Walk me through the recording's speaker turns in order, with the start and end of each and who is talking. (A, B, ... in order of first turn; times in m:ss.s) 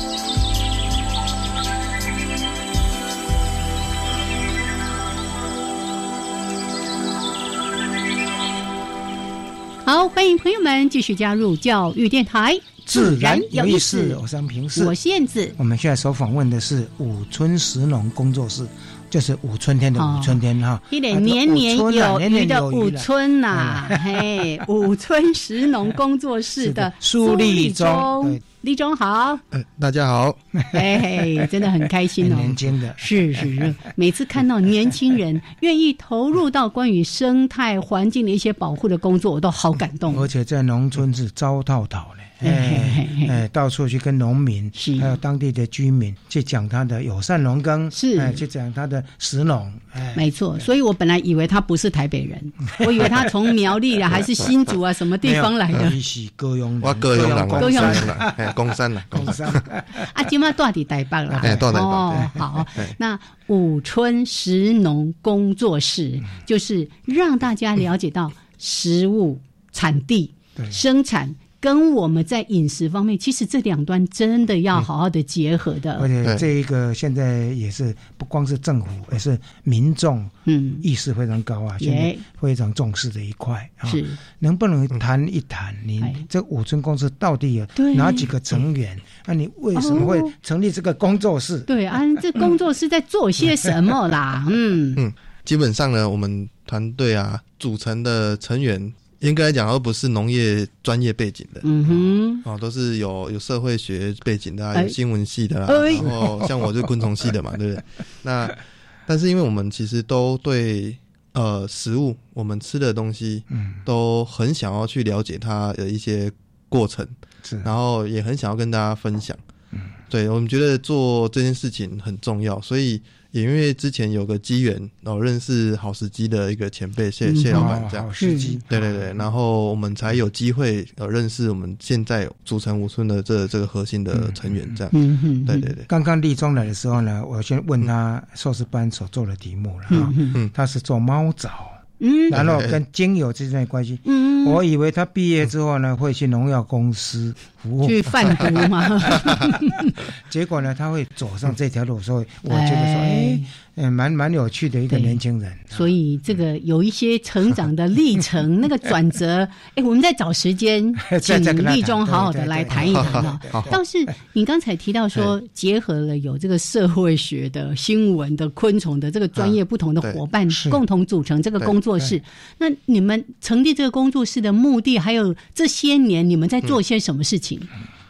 0:09.8-0:14.2 A
0:12.8-0:14.9 B
0:14.7-0:15.6 A
0:15.6-0:24.2 B
0:20.0-0:29.4 A
0:26.6-0:28.4 B
0:29.5-0:30.4 C
0:30.6-0:31.4 B
0:30.7-0:40.3 A
0:32.2-0:33.7 B
0:40.1-0:50.7 B
0:42.4-0:43.4 A
0:44.7-0:45.1 A
0:47.9-0:48.4 A
0:50.2-0:56.0 A
0:52.8-0:53.3 B
0:55.2-0:58.6 B
0:56.8-0:59.6 C
0:57.6-0:58.1 A
0:59.1-1:00.1 B
1:00.0-1:16.1 A
1:01.3-1:02.4 B
1:01.4-1:02.9 C
1:16.0-1:31.7 B
1:20.4-1:20.8 A
1:21.8-1:22.2 A
1:23.8-1:24.2 A
1:26.0-1:26.2 A
1:27.8-1:28.3 A
1:29.8-1:30.3 A
1:31.7-1:35.0 A
1:35.0-1:59.4 C
1:41.6-1:42.4 A
1:45.7-1:46.1 A
1:46.0-1:46.9 B
1:53.5-1:53.8 B
1:57.4-1:57.7 B
2:00.1-2:08.1 C
2:07.2-2:08.6 A
2:07.5-2:09.0 B
2:08.7-2:14.9 C
2:14.1-2:14.6 B
2:14.9-2:15.7 A
2:15.5-2:15.9 C
2:15.9-2:29.2 B
2:19.9-2:20.4 A
2:22.0-2:22.3 A
2:22.3-2:22.8 C
2:24.0-2:24.6 A
2:27.8-2:30.0 A
2:30.2-2:35.9 B
2:32.5-2:33.5 A
2:34.9-2:35.2 A
2:35.7-2:57.7 A
2:41.0-2:43.8 B
2:42.7-2:43.7 C
2:49.4-2:50.2 C
2:50.5-2:50.8 B